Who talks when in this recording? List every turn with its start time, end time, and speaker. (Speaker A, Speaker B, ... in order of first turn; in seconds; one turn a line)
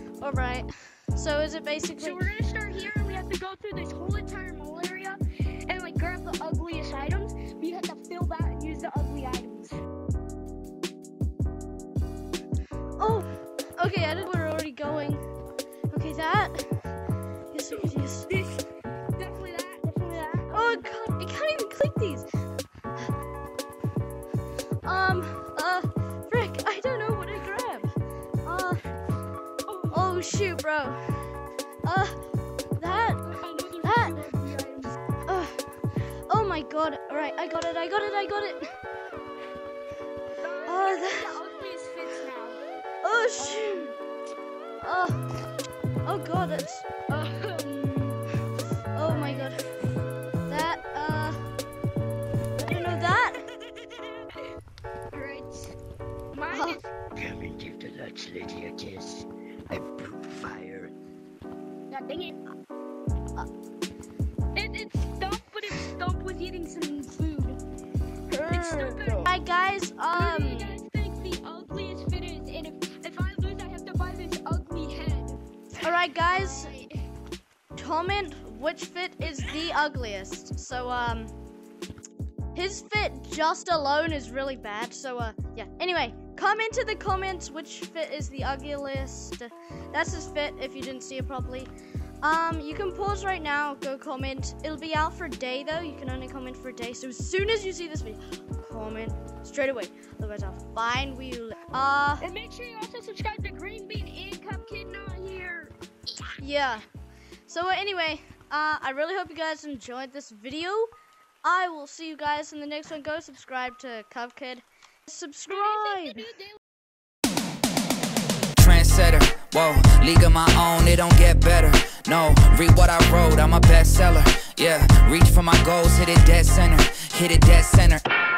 Speaker A: 0.2-2.2
Speaker B: 2.0-9.8
Speaker A: 13.0-15.2
Speaker A: 15.9-16.9
Speaker A: 17.5-18.3
Speaker B: 17.7-18.6
Speaker B: 19.1-20.9
Speaker A: 20.5-22.3
Speaker A: 24.8-27.9
Speaker A: 28.4-28.8
Speaker B: 29.6-30.1
Speaker A: 29.9-31.3
Speaker A: 31.8-32.2
Speaker A: 32.8-33.2
Speaker B: 33.2-34.9
Speaker A: 33.8-34.1
Speaker A: 35.2-38.7
Speaker B: 40.4-42.6
Speaker A: 40.7-41.3
Speaker A: 43.0-43.9
Speaker B: 43.4-44.0
Speaker A: 44.8-45.2
Speaker A: 46.0-46.9
Speaker B: 47.1-48.2
Speaker A: 48.9-49.6
Speaker B: 49.1-49.5
Speaker A: 50.5-51.4
Speaker A: 52.6-53.4
Speaker B: 55.1-55.8
Speaker B: 56.3-56.9
Speaker A: 56.5-56.8
Speaker C: 57.1-60.9
Speaker B: 61.9-62.4
Speaker B: 64.5-67.6
Speaker A: 68.3-70.8
Speaker B: 68.5-69.3
Speaker B: 70.1-77.1
Speaker A: 75.8-76.7
Speaker A: 77.8-81.3
Speaker A: 82.5-91.7
Speaker A: 92.2-102.3
Speaker B: 102.2-106.3
Speaker A: 106.4-106.9
Speaker A: 107.5-110.9
Speaker A: 111.4-116.2
Speaker B: 115.5-116.6
Speaker D: 118.6-128.1